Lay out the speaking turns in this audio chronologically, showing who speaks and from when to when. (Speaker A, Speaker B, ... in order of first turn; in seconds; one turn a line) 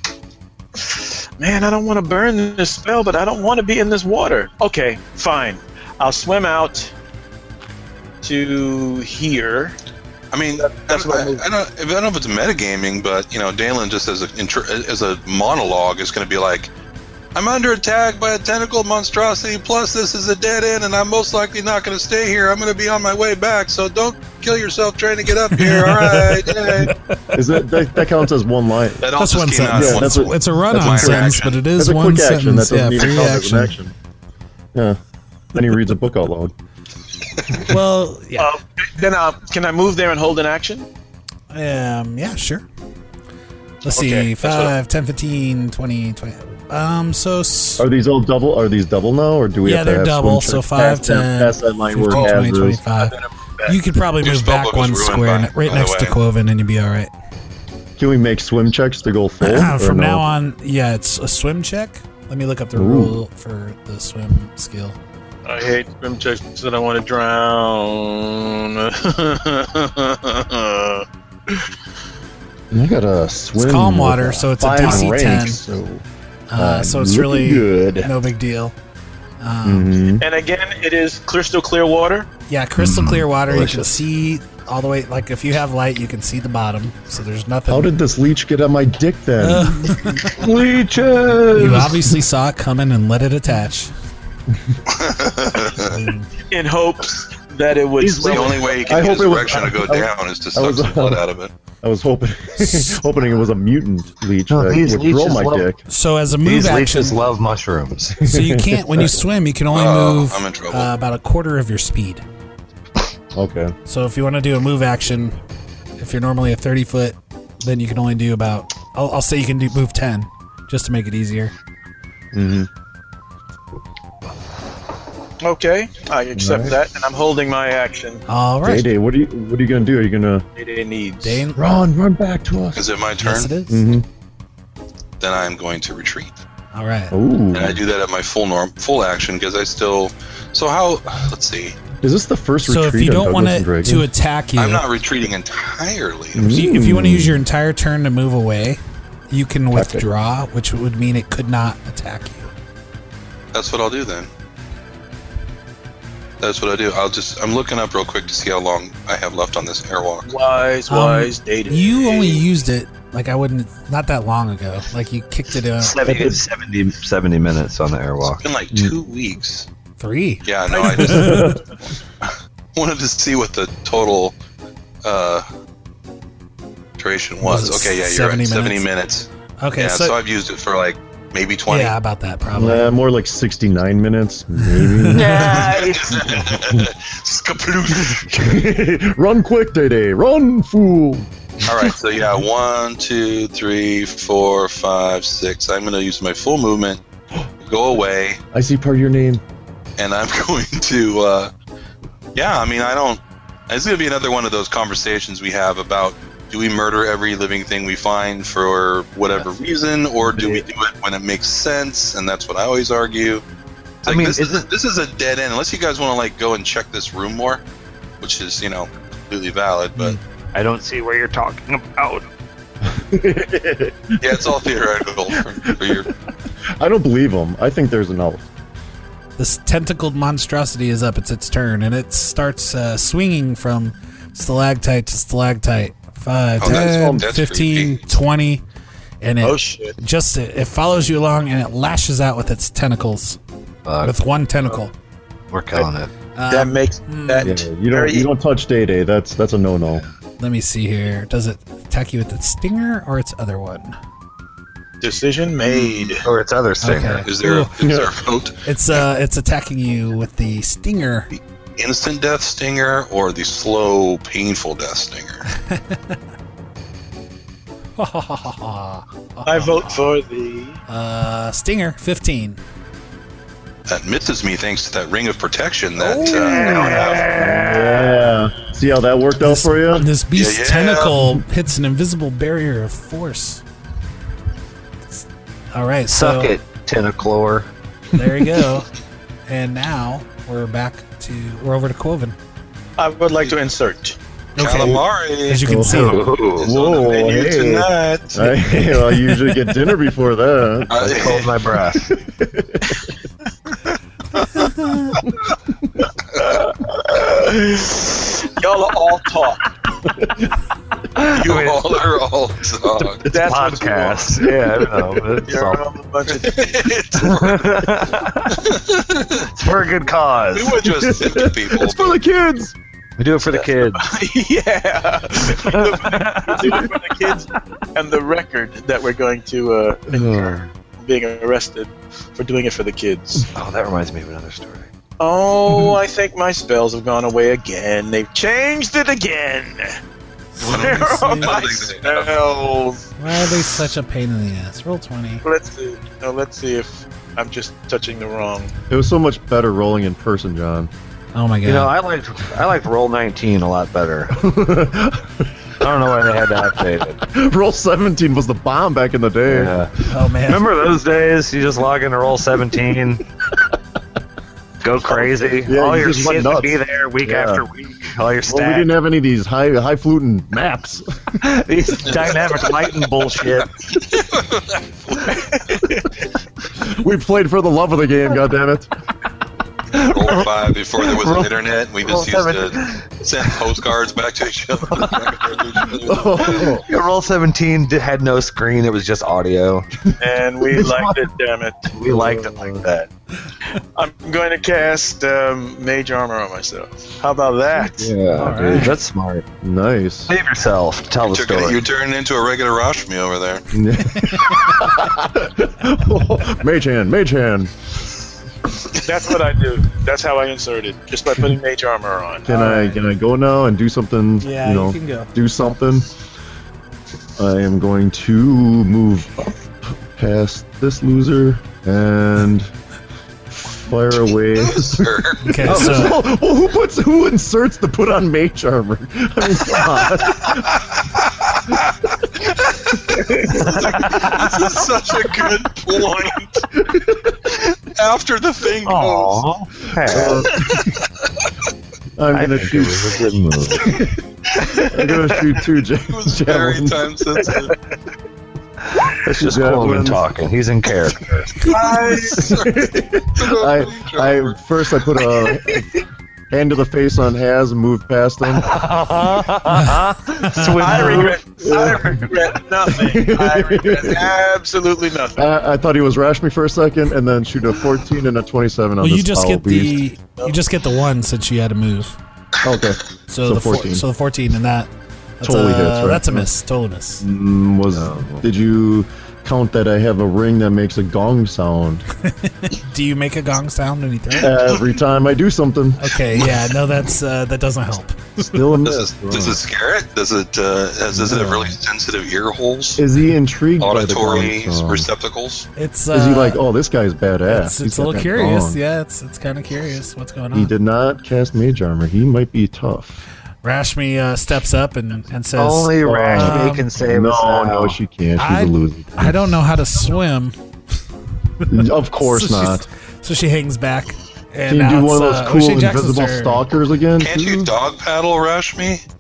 Speaker A: 0.8-6.9
Speaker A: 8.2-9.8
Speaker B: 10.3-16.7
Speaker A: 10.6-11.4
Speaker B: 17.3-26.9
Speaker C: 25.5-27.3
Speaker D: 27.3-29.0
Speaker B: 29.0-31.6
Speaker C: 29.2-33.8
Speaker D: 29.7-33.9
Speaker D: 34.7-35.0
Speaker D: 35.5-36.5
Speaker C: 37.6-38.5
Speaker A: 38.4-40.9
Speaker C: 41.5-42.6
Speaker C: 43.8-47.9
Speaker A: 44.0-44.3
Speaker B: 44.4-44.7
Speaker D: 47.8-52.8
Speaker C: 49.6-53.1
Speaker A: 52.9-53.8
Speaker C: 53.6-57.1
Speaker B: 54.2-56.2
Speaker D: 58.0-60.3
Speaker C: 59.4-65.0
Speaker D: 62.7-63.2
Speaker A: 65.4-71.0
Speaker D: 72.7-78.1
Speaker C: 73.5-75.6
Speaker C: 76.5-78.7
Speaker C: 79.4-79.9
Speaker D: 79.6-80.2
Speaker A: 80.2-82.3
Speaker C: 82.5-87.9
Speaker E: 82.8-84.0
Speaker D: 87.7-90.1
Speaker C: 89.4-90.3
Speaker E: 90.2-92.1
Speaker C: 91.5-93.9
Speaker B: 94.9-95.9
Speaker C: 95.9-96.3
Speaker A: 96.5-99.1
Speaker E: 98.0-98.7
Speaker B: 98.2-101.5
Speaker D: 98.8-101.2
Speaker D: 101.8-105.8
Speaker E: 104.5-105.7
Speaker C: 105.9-107.2
Speaker E: 106.4-108.2
Speaker D: 108.1-109.1
Speaker C: 108.2-112.2
Speaker B: 109.7-110.9
Speaker D: 113.3-113.7
Speaker C: 113.9-115.3
Speaker C: 116.0-121.5
Speaker D: 122.3-122.7
Speaker A: 125.4-128.2
Speaker D: 126.3-126.8
Speaker C: 128.3-128.9
Speaker D: 128.6-130.4
Speaker A: 130.6-131.4
Speaker C: 131.2-131.7
Speaker D: 131.6-132.8
Speaker B: 132.7-133.5
Speaker C: 133.2-133.9
Speaker D: 133.7-134.0
Speaker B: 135.2-136.3
Speaker C: 136.7-137.1
Speaker D: 137.1-137.8
Speaker B: 137.5-141.8
Speaker D: 142.0-144.1
Speaker C: 142.6-144.8
Speaker B: 144.6-146.6
Speaker D: 146.3-147.4
Speaker C: 146.5-152.5
Speaker D: 149.7-150.1
Speaker B: 153.5-154.3
Speaker B: 156.4-160.3
Speaker A: 160.2-162.4
Speaker C: 160.9-166.0
Speaker E: 165.8-168.4
Speaker D: 166.0-166.4
Speaker B: 168.4-169.7
Speaker C: 170.0-171.6
Speaker B: 170.4-171.5
Speaker D: 171.0-171.6
Speaker B: 172.7-174.3
Speaker B: 175.0-175.4
Speaker B: 177.0-181.9
Speaker C: 177.4-178.8
Speaker C: 179.6-180.2
Speaker C: 181.7-182.9
Speaker D: 182.5-185.4
Speaker C: 184.7-185.6
Speaker E: 185.1-186.4
Speaker B: 185.4-188.4
Speaker D: 186.4-186.9
Speaker D: 188.3-191.3
Speaker B: 191.6-197.0
Speaker B: 197.6-198.4
Speaker D: 198.5-199.4
Speaker B: 200.0-201.5
Speaker B: 202.3-213.4
Speaker E: 210.2-210.6
Speaker B: 214.0-217.6
Speaker E: 214.0-214.7
Speaker B: 218.2-220.2
Speaker E: 220.0-222.3
Speaker D: 222.9-224.7
Speaker B: 224.2-226.1
Speaker D: 225.7-226.0
Speaker D: 226.8-228.5
Speaker C: 229.4-238.6
Speaker B: 236.6-238.1
Speaker D: 236.6-237.2
Speaker C: 239.2-243.4
Speaker A: 239.4-239.9
Speaker E: 243.8-244.1
Speaker C: 244.0-244.9
Speaker E: 245.5-246.1
Speaker C: 246.3-247.5
Speaker A: 246.5-248.3
Speaker D: 247.4-250.0
Speaker C: 250.4-253.9
Speaker A: 255.0-256.2
Speaker B: 255.6-256.1
Speaker E: 256.2-257.2
Speaker C: 256.8-257.7
Speaker B: 257.2-259.0
Speaker D: 257.8-258.1
Speaker C: 258.6-261.3
Speaker B: 261.3-265.4
Speaker C: 265.7-266.0
Speaker C: 268.0-270.1
Speaker A: 269.4-270.8
Speaker C: 270.9-272.6
Speaker B: 273.9-277.2
Speaker A: 276.2-277.3
Speaker E: 276.2-278.3
Speaker D: 277.3-280.1
Speaker C: 279.4-283.6
Speaker B: 280.3-281.2
Speaker C: 285.1-286.5
Speaker E: 286.1-287.7
Speaker C: 288.1-288.9
Speaker C: 289.5-292.4
Speaker A: 293.0-294.1
Speaker C: 294.6-296.2
Speaker B: 294.6-295.7
Speaker D: 295.6-301.4
Speaker E: 295.8-296.7
Speaker B: 296.6-298.5
Speaker B: 300.9-301.5
Speaker E: 301.0-302.1
Speaker D: 302.0-303.0
Speaker C: 304.8-305.1
Speaker A: 307.2-309.6
Speaker E: 311.1-312.0
Speaker B: 311.3-313.2
Speaker E: 313.0-315.8
Speaker A: 313.2-314.4
Speaker D: 313.4-313.7
Speaker D: 314.6-315.1
Speaker A: 315.4-316.9
Speaker B: 316.3-317.9
Speaker E: 317.2-318.7
Speaker B: 318.7-319.5
Speaker E: 319.5-320.9
Speaker B: 320.5-322.2
Speaker D: 320.8-322.7
Speaker E: 323.2-324.1
Speaker A: 323.6-333.5
Speaker E: 325.4-326.9
Speaker D: 330.1-330.6
Speaker E: 333.5-334.9
Speaker A: 335.2-340.0
Speaker C: 340.6-341.7
Speaker A: 340.6-343.0
Speaker B: 340.6-342.5
Speaker C: 343.2-345.4
Speaker A: 345.4-348.7
Speaker D: 348.9-350.9
Speaker C: 351.3-351.9
Speaker E: 351.6-354.4
Speaker D: 354.3-355.5
Speaker E: 355.8-357.2
Speaker D: 357.3-359.8
Speaker E: 359.5-359.9
Speaker C: 360.1-360.6
Speaker E: 360.4-363.2
Speaker E: 364.8-368.9
Speaker D: 365.6-367.6
Speaker D: 368.4-371.3
Speaker E: 371.4-373.7
Speaker B: 372.1-372.3
Speaker B: 374.0-375.9
Speaker D: 376.8-378.9
Speaker E: 379.9-381.5
Speaker B: 380.0-386.8
Speaker E: 382.0-383.5
Speaker E: 384.9-385.6
Speaker D: 386.0-386.8
Speaker E: 386.4-389.9
Speaker A: 390.2-392.8
Speaker D: 390.7-391.2
Speaker E: 391.9-393.1
Speaker A: 393.7-398.1
Speaker E: 398.0-399.4
Speaker C: 398.3-399.0
Speaker D: 398.4-398.9
Speaker D: 399.6-400.3
Speaker E: 400.3-401.8
Speaker B: 401.2-403.6
Speaker D: 403.7-407.7
Speaker A: 409.0-412.5
Speaker D: 412.4-416.1
Speaker C: 412.5-413.0
Speaker C: 414.4-415.3
Speaker D: 417.4-419.6
Speaker D: 420.1-422.7
Speaker D: 423.5-430.7
Speaker B: 424.3-426.0
Speaker C: 425.4-426.2
Speaker B: 430.4-431.9
Speaker B: 432.7-436.6
Speaker E: 434.1-434.6
Speaker D: 436.9-437.3
Speaker B: 437.4-439.4
Speaker E: 438.9-440.6
Speaker D: 440.1-440.8
Speaker D: 442.1-443.2
Speaker E: 442.3-444.0
Speaker D: 443.8-444.2
Speaker D: 444.8-447.1
Speaker B: 446.1-447.8
Speaker E: 448.9-451.6
Speaker D: 449.3-450.3
Speaker A: 451.6-452.4
Speaker B: 451.6-454.6
Speaker D: 452.4-455.9
Speaker D: 456.5-458.8
Speaker E: 458.5-461.4
Speaker C: 459.8-461.0
Speaker A: 460.7-465.4
Speaker D: 460.9-462.3
Speaker D: 462.8-464.3
Speaker D: 465.4-470.0
Speaker C: 469.0-472.1
Speaker D: 472.6-474.1
Speaker C: 473.3-474.9
Speaker C: 475.4-477.2
Speaker D: 475.4-476.5
Speaker D: 477.2-482.0
Speaker E: 477.9-478.5
Speaker C: 482.2-484.6
Speaker D: 484.4-486.1
Speaker C: 486.0-488.7
Speaker D: 488.4-489.6
Speaker B: 488.8-493.0
Speaker C: 491.1-491.7
Speaker D: 493.0-495.1
Speaker B: 493.8-495.7
Speaker C: 495.8-496.6
Speaker D: 496.1-498.8
Speaker C: 497.5-500.7
Speaker D: 500.5-503.2
Speaker C: 503.6-506.9
Speaker E: 505.6-508.0
Speaker D: 506.0-509.3
Speaker C: 508.4-510.6
Speaker C: 511.6-516.6
Speaker D: 511.7-512.8
Speaker D: 514.7-517.7
Speaker B: 517.2-519.0